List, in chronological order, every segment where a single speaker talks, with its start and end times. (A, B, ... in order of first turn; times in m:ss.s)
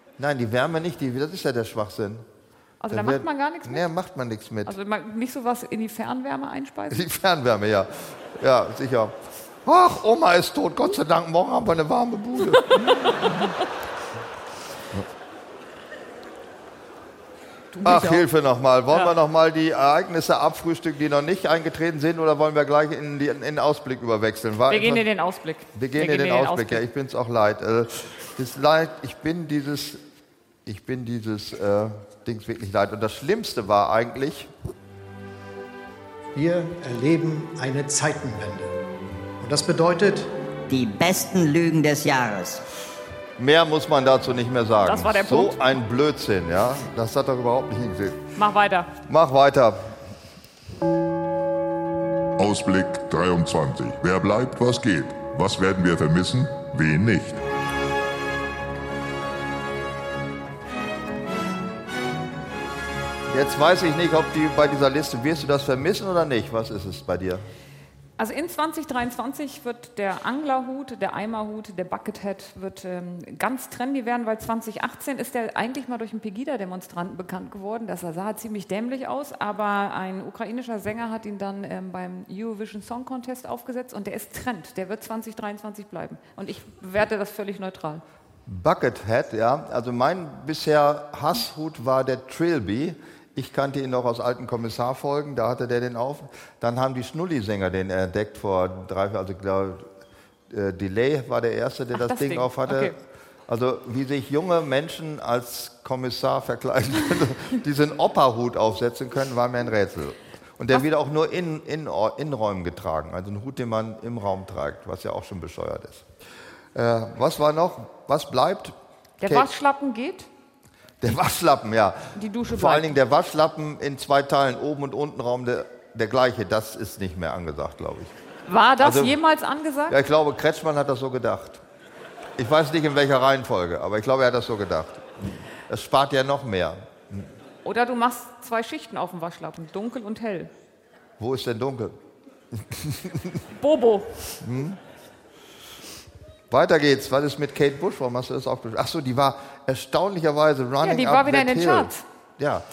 0:00.2-0:02.2 A
0:02.8-0:03.8 B
0:02.9-0:04.7 A
0:04.6-0:07.0 B
0:06.9-0:13.5 A
0:17.7-0:18.3 B
0:17.8-0:25.0 A
0:24.7-0:26.8 B
0:25.7-0:30.0 A
0:30.6-0:34.5 A
0:36.3-0:38.7 C
0:39.4-0:40.3 C
0:40.7-0:42.6 D
0:43.4-0:48.2 A
0:44.8-0:45.8 B
0:48.4-0:48.9 B
0:49.1-0:49.9 A
0:52.4-0:57.4 E
1:03.3-1:07.4 A
1:08.2-1:28.0 B
1:28.4-1:39.9 A
1:40.5-1:42.9 A
1:41.9-1:43.0 B
1:43.5-1:56.0 A
1:56.7-1:59.5 A
1:59.2-2:00.3 B
2:01.0-2:08.1 A
2:02.1-2:02.9 B
2:08.4-2:10.0 B
2:08.8-2:09.2 A
2:09.9-2:11.6 A
2:12.4-2:15.1 A
2:15.7-2:17.3 A
2:17.6-2:20.5 B
2:21.2-2:22.0 A
2:22.5-2:23.4 A
2:23.5-2:24.4 B
2:24.4-2:24.8 A
2:26.5-2:32.6 A
2:30.8-2:32.0 B